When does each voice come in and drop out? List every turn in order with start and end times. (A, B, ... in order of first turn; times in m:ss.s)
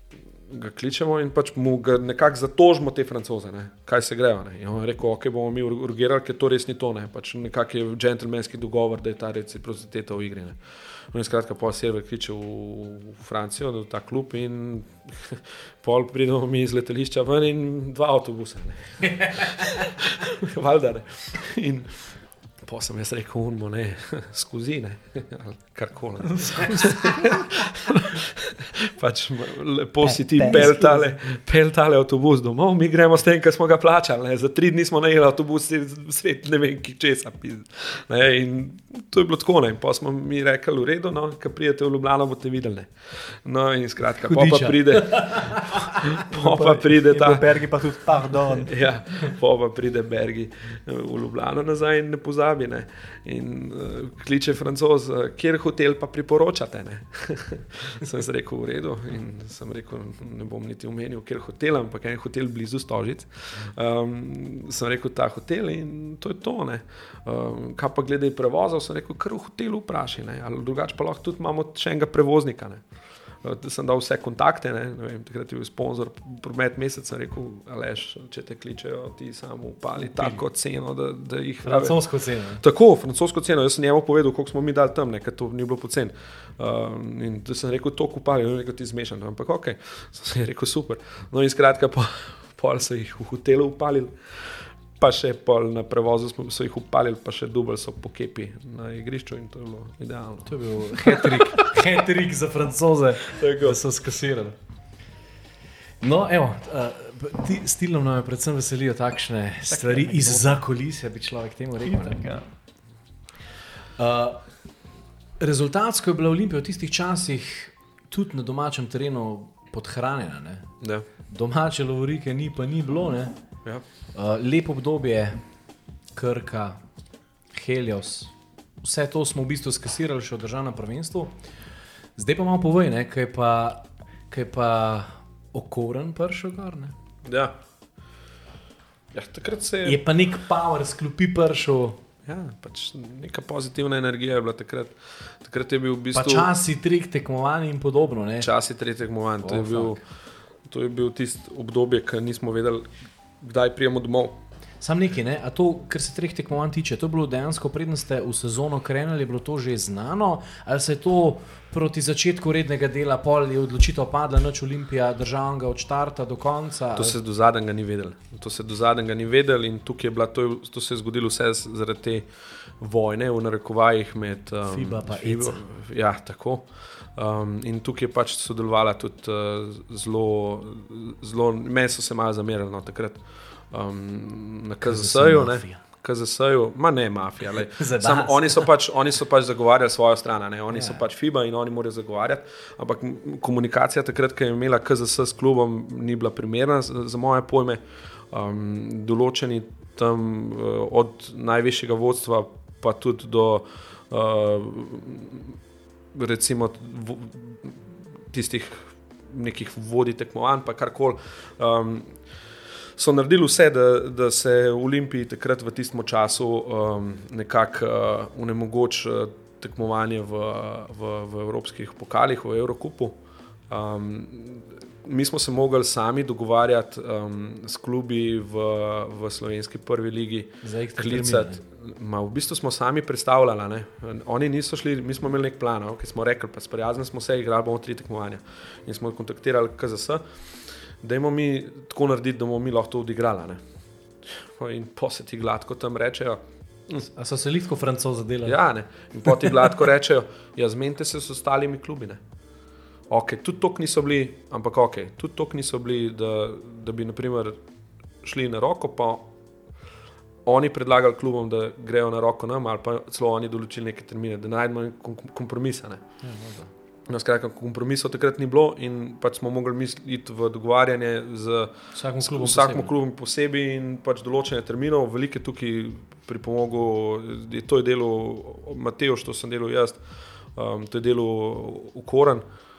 0:00.5-0:47.6 A
0:19.4-0:19.8 B
0:26.2-0:27.5 C
0:30.1-0:31.2 C
0:44.1-0:46.0 B
0:46.3-0:48.7 C
0:48.5-1:12.8 A
1:13.4-1:22.0 A
1:20.0-1:20.4 B
1:21.6-1:22.6 B
1:22.6-1:41.8 A
1:40.4-1:44.6 B
1:43.3-1:43.8 A
1:46.0-1:52.4 B
1:49.7-1:50.6 C
1:51.8-1:52.4 C
1:54.0-1:54.4 B
1:55.4-2:00.7 B
2:00.8-2:01.1 A
2:01.3-2:03.3 B
2:04.1-2:05.4 B
2:06.1-2:06.8 B
2:07.5-2:11.4 B
2:12.2-2:17.0 B
2:17.2-2:17.6 A
2:19.1-2:20.0 A
2:19.8-2:22.0 B
2:22.3-2:26.5 A
2:26.1-2:28.5 B
2:28.4-2:30.0 A
2:29.4-2:30.0 B
2:30.6-2:34.4 A
2:34.8-2:47.2 B
2:47.0-3:25.6 A
2:54.6-2:55.6 B
3:04.8-3:05.8 B
3:07.6-3:08.7 B
3:10.7-3:11.0 B
3:26.1-3:32.2 A
3:33.0-4:03.6 A
3:50.6-3:51.6 B
4:04.2-4:07.0 A
4:07.0-4:08.6 B
4:08.4-4:12.2 A
4:13.1-4:17.6 A
4:18.2-4:19.3 A
4:20.4-4:26.0 A
4:26.2-4:26.7 B
4:27.1-4:42.4 A
4:31.9-4:32.9 B